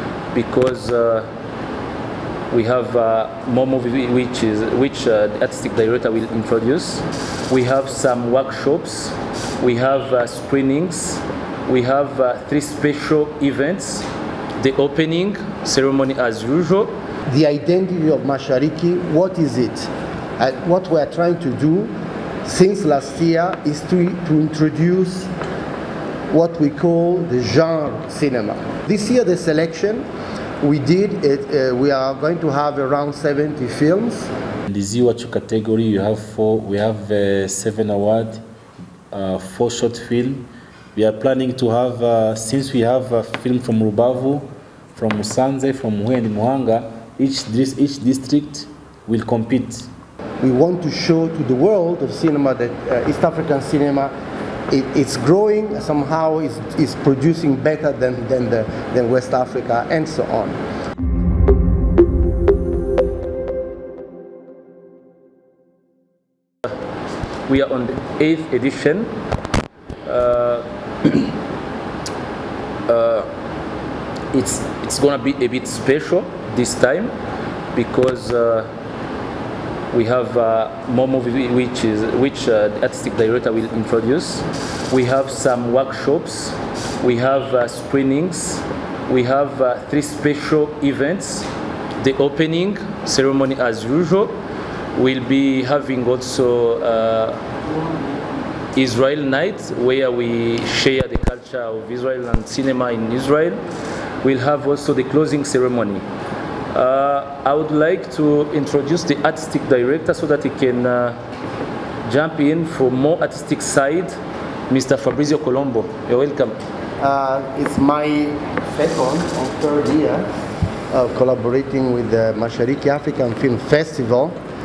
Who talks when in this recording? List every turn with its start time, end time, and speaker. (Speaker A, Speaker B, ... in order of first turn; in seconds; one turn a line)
Speaker A: 0.3-1.3
Speaker A: 2.5-14.1
Speaker A: 14.6-16.9
Speaker B: 17.3-21.9
Speaker B: 22.4-25.3
Speaker B: 26.3-30.1
Speaker B: 30.6-34.3
Speaker C: 34.7-38.4
Speaker C: 39.1-49.9
Speaker B: 50.4-54.1
Speaker B: 54.7-60.6
Speaker A: 67.5-69.1
Speaker A: 70.0-71.2
Speaker A: 72.9-73.3
Speaker A: 74.3-77.1
Speaker A: 77.7-78.7
Speaker A: 79.9-94.4
Speaker A: 94.9-97.4
Speaker A: 98.8-103.6
Speaker A: 104.2-106.0
Speaker A: 106.7-111.2
Speaker A: 112.0-114.2
Speaker A: 114.7-116.6
Speaker B: 117.0-120.3
Speaker B: 120.9-124.4